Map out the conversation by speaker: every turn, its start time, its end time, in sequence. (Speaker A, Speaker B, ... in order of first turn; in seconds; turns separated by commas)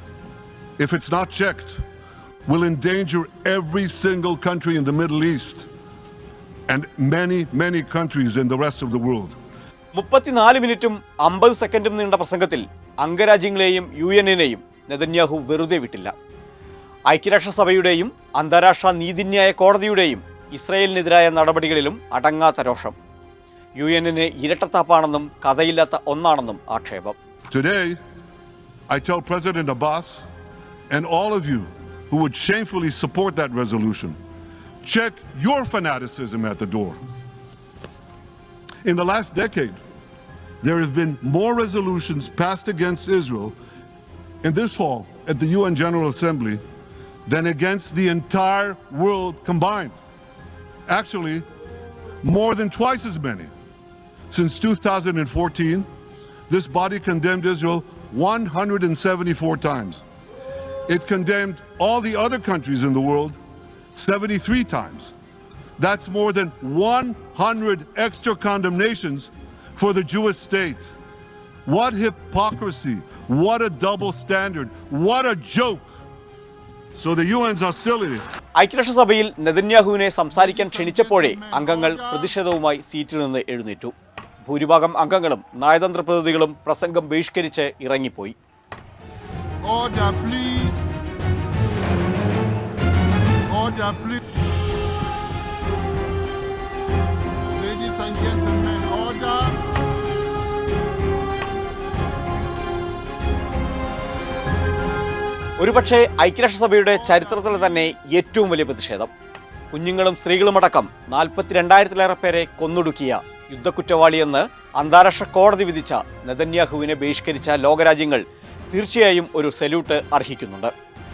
Speaker A: 0.8-1.8, Speaker A: 2.5-5.7, Speaker A: 6.7-9.4, Speaker B: 9.9-16.1, Speaker B: 17.1-22.9, Speaker B: 23.8-27.1, Speaker A: 27.5-28.0, Speaker A: 28.9-30.2, Speaker A: 30.9-34.2, Speaker A: 34.8-37.0, Speaker A: 38.8-39.8, Speaker A: 40.6-43.5, Speaker A: 44.4-46.6, Speaker A: 47.2-50.0, Speaker A: 50.9-51.4, Speaker A: 52.2-53.5, Speaker A: 54.3-55.9, Speaker A: 56.5-60.0, Speaker A: 60.9-63.4, Speaker A: 63.9-65.1, Speaker A: 65.8-70.9, Speaker A: 71.7-75.9, Speaker A: 76.9-78.2, Speaker B: 78.6-83.9, Speaker A: 80.8-81.8, Speaker C: 81.6-82.0, Speaker B: 84.4-88.3, Speaker C: 89.6-90.8, Speaker C: 93.5-94.2, Speaker C: 97.5-99.6, Speaker B: 105.6-109.1, Speaker A: 107.4-107.8, Speaker B: 109.7-120.7